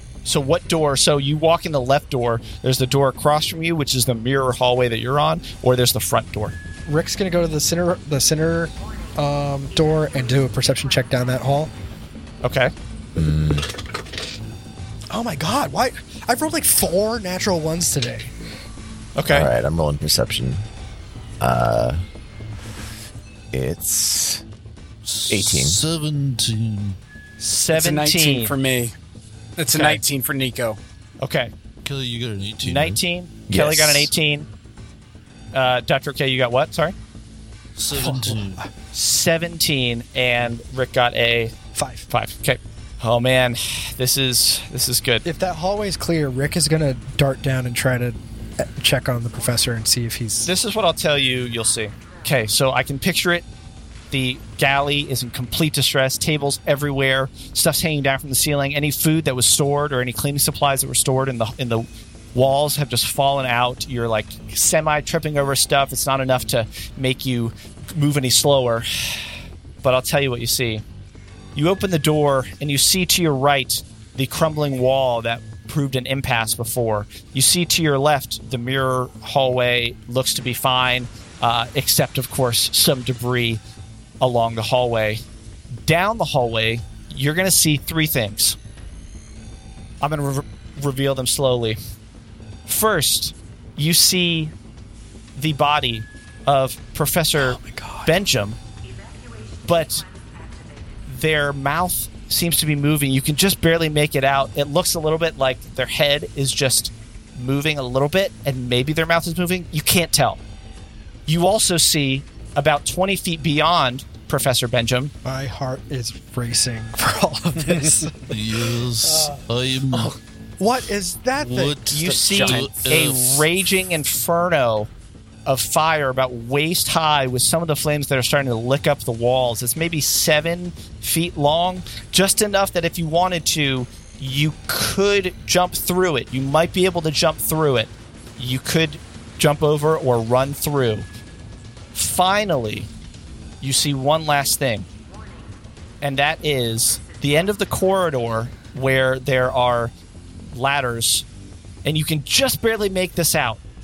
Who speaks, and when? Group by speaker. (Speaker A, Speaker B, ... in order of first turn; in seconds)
Speaker A: 0.3-6.6, 12.4-12.7, 19.2-19.5, 27.4-28.5, 29.7-30.0, 31.2-31.5, 32.6-34.5, 35.5-37.0, 38.9-41.5, 42.1-45.2, 50.5-53.5, 54.1-70.8, 71.5-83.6, 84.2-85.2, 85.8-88.6, 90.0-91.8, 92.7-94.5, 95.4-98.6, 99.7-100.1, 101.1-110.4, 111.3-115.1, 121.9-124.9, 125.5-141.1, 141.9-142.9, 143.6-144.9, 146.0-149.9, 150.5-151.3, 151.8-153.6
Speaker B: 6.9-11.7, 15.1-18.3, 38.0-38.6, 41.7-42.1, 45.2-50.5, 97.4-98.1, 115.2-118.4, 119.0-119.4, 120.6-121.8
Speaker C: 13.2-13.7, 19.3-20.6, 21.4-22.0, 23.5-24.4, 25.3-25.8, 33.5-34.1, 122.1-122.7
Speaker D: 25.1-27.0, 31.8-33.0, 37.8-38.7, 118.3-120.2, 121.4-123.5
Speaker E: 27.7-28.9, 29.6-30.8